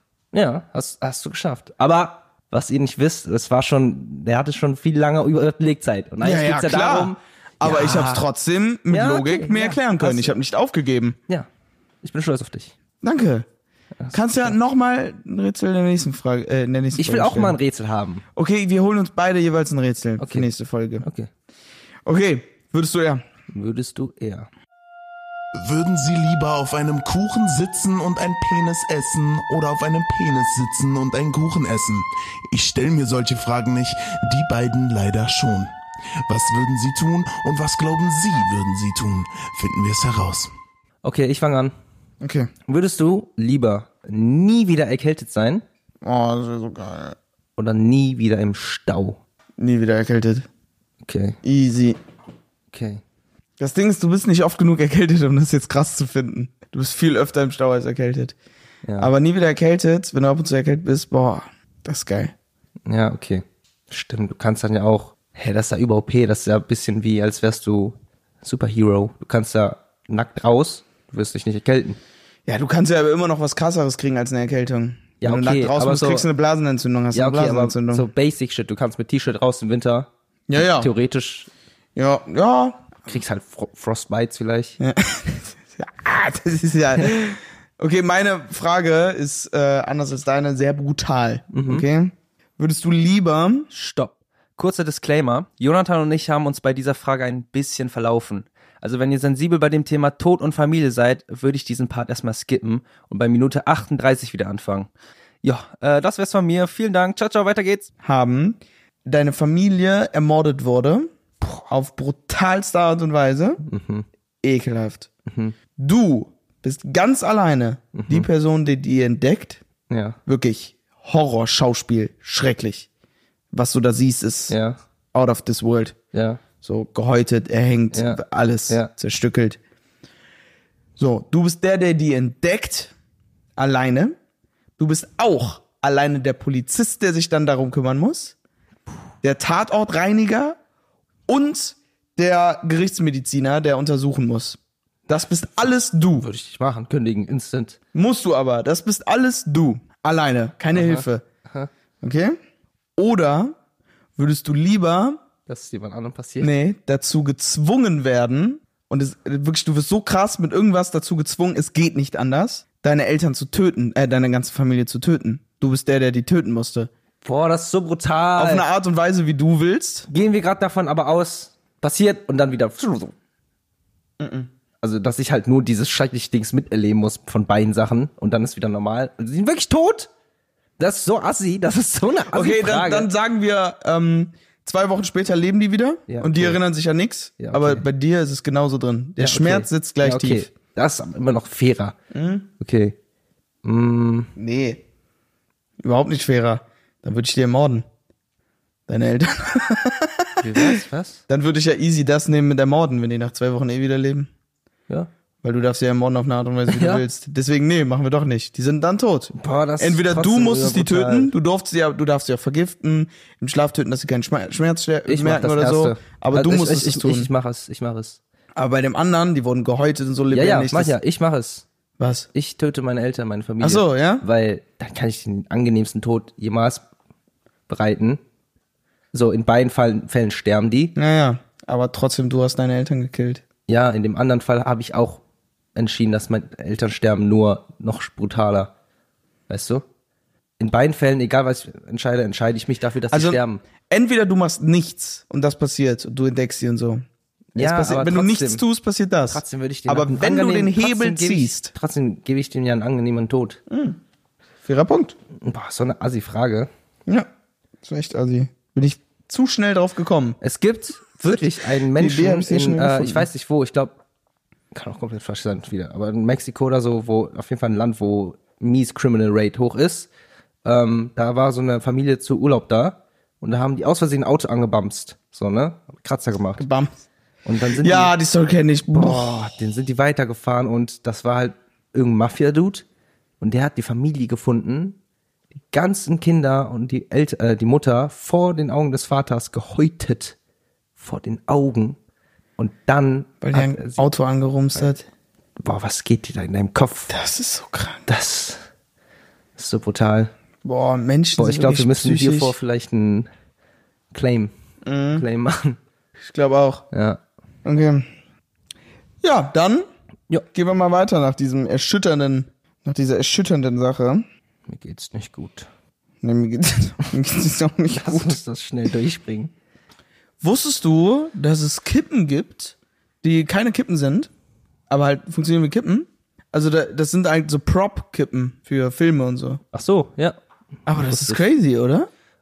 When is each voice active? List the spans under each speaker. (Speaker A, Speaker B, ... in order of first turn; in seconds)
Speaker A: 0.3-8.2, 8.9-10.3, 12.0-12.7, 14.0-14.5, 16.9-18.2, 20.2-20.5, 21.0-21.3, 23.5-24.5, 41.0-41.7, 42.7-45.6, 47.6-49.2, 51.0-51.4, 52.7-53.0, 58.9-59.1, 62.9-72.0, 75.2-76.2, 77.1-81.5, 83.0-84.8, 91.5-91.8, 93.7-104.9, 105.4-107.9, 113.6-114.0, 115.3-115.5, 117.9-118.3, 119.9-120.2, 124.5-124.8, 126.1-126.4, 127.9-128.9, 146.2-147.8, 150.7-151.7, 155.5-156.5, 167.2-168.7, 170.1-173.1, 174.8-180.1, 180.8-183.1, 186.1-186.6, 187.4-187.8, 189.2-191.9, 192.6-192.9, 193.6-194.3, 200.4-201.2, 206.7-207.0, 209.3-211.3, 215.1-218.2, 220.3-221.7, 222.3-226.8, 227.7-228.2, 229.1-230.9, 233.7-235.2, 235.8-238.7, 239.5-239.8, 240.6-243.6, 247.6-248.6, 249.3-253.6, 255.3-256.7, 260.4-263.9, 264.7-270.1, 270.6-276.6, 277.4-278.1, 278.9-282.8, 283.4-285.0, 285.7-290.4, 291.0-292.0, 292.6-294.1, 295.6-297.1, 298.1-298.6, 299.6-300.3, 301.4-303.3, 304.1-304.5, 305.1-305.8, 306.9-307.2, 314.7-315.7, 317.9-319.5, 329.7-330.4, 330.9-331.4
Speaker B: 6.2-11.2, 13.0-13.5, 14.1-17.6, 18.3-21.0, 22.1-23.2, 42.2-42.5, 46.0-47.1, 49.6-50.5, 51.4-52.0, 53.6-58.3, 59.0-62.3, 72.5-78.1, 80.5-80.9, 81.9-82.9, 84.8-93.7, 108.0-111.1, 111.7-113.6, 114.4-115.1, 115.8-119.6, 120.2-122.9, 123.5-124.5, 125.1-126.0, 126.6-129.6, 131.0-132.9, 133.6-134.1, 134.8-138.3, 139.2-140.6, 141.3-146.3, 147.9-151.2, 152.0-152.3, 153.0-153.6, 154.2-155.2, 156.4-166.9, 168.3-170.1, 174.2-174.5, 182.3-190.5, 192.1-192.4, 194.3-194.8, 195.8-197.8, 198.9-204.3, 205.4-217.3, 218.6-220.9, 222.0-222.3, 223.6-224.2, 230.9-233.4, 243.1-247.0, 247.6-251.7, 253.7-254.0, 254.6-255.1, 257.8-260.4, 261.9-263.3, 276.6-276.9, 277.8-279.6, 293.4-295.0, 297.1-298.1, 300.6-302.5, 304.8-305.2, 306.2-306.8, 307.6-308.1, 309.2-309.9, 310.5-314.2, 316.2-318.4, 320.4-324.3, 324.9-329.6, 330.9-332.1
Speaker C: 25.5-35.7, 36.3-40.5